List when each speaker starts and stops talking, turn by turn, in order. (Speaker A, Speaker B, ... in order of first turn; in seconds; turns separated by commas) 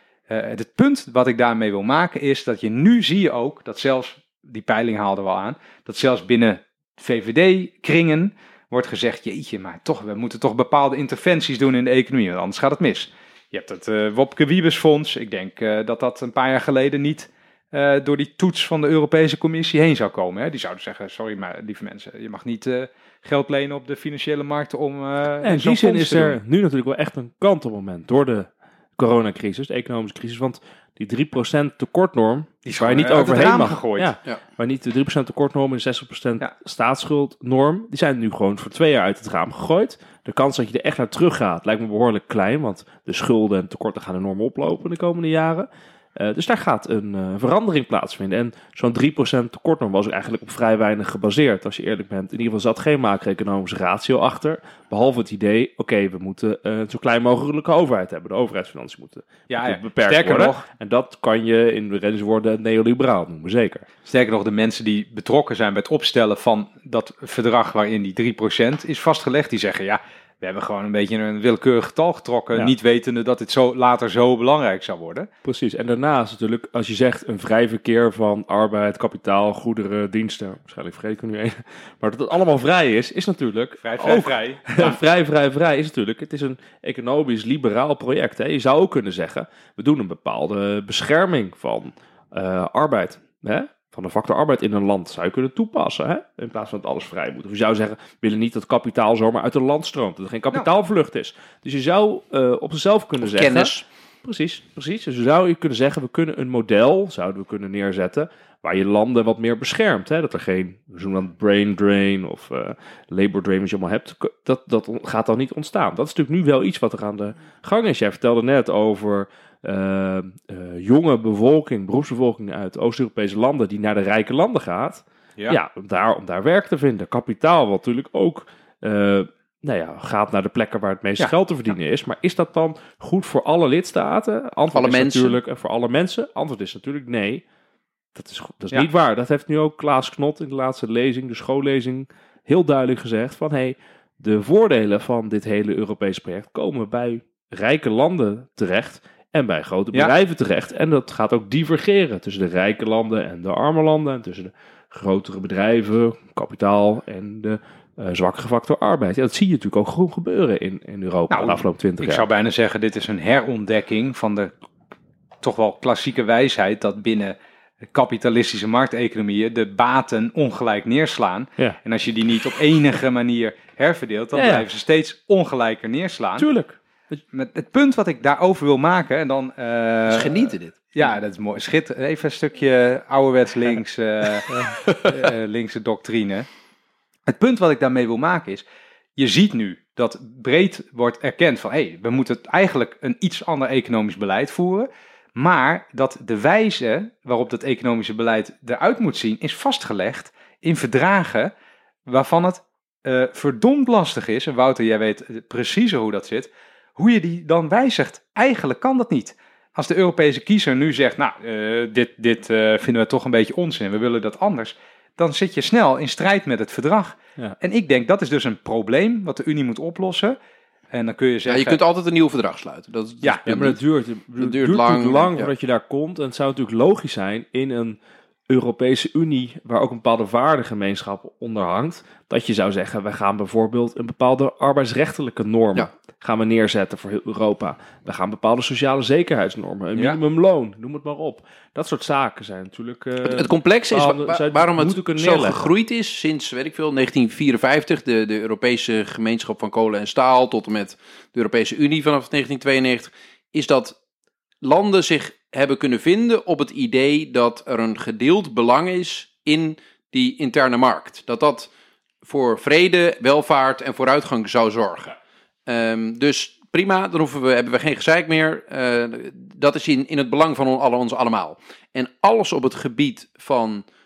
Speaker A: 0.3-26.4, Speaker B: 25.4-63.9, Speaker A: 32.6-34.1, Speaker A: 59.5-60.7, Speaker A: 64.1-75.3, Speaker B: 75.4-103.7, Speaker A: 83.8-85.0, Speaker C: 103.2-103.8, Speaker B: 104.2-137.4, Speaker C: 134.7-135.4, Speaker B: 138.2-162.3, Speaker A: 161.3-164.5, Speaker A: 165.4-167.4, Speaker A: 167.9-176.5, Speaker B: 174.3-174.7, Speaker B: 176.4-177.2, Speaker A: 177.3-186.5, Speaker C: 180.1-180.9, Speaker B: 184.5-185.0, Speaker A: 187.3-188.7, Speaker A: 189.2-201.5, Speaker A: 202.1-220.4, Speaker A: 220.9-221.8, Speaker C: 221.5-223.8, Speaker A: 223.2-223.5, Speaker B: 223.4-228.0, Speaker C: 224.4-225.5, Speaker B: 228.5-245.7, Speaker C: 243.2-254.0, Speaker C: 254.6-261.7, Speaker C: 262.2-265.2, Speaker C: 265.7-273.9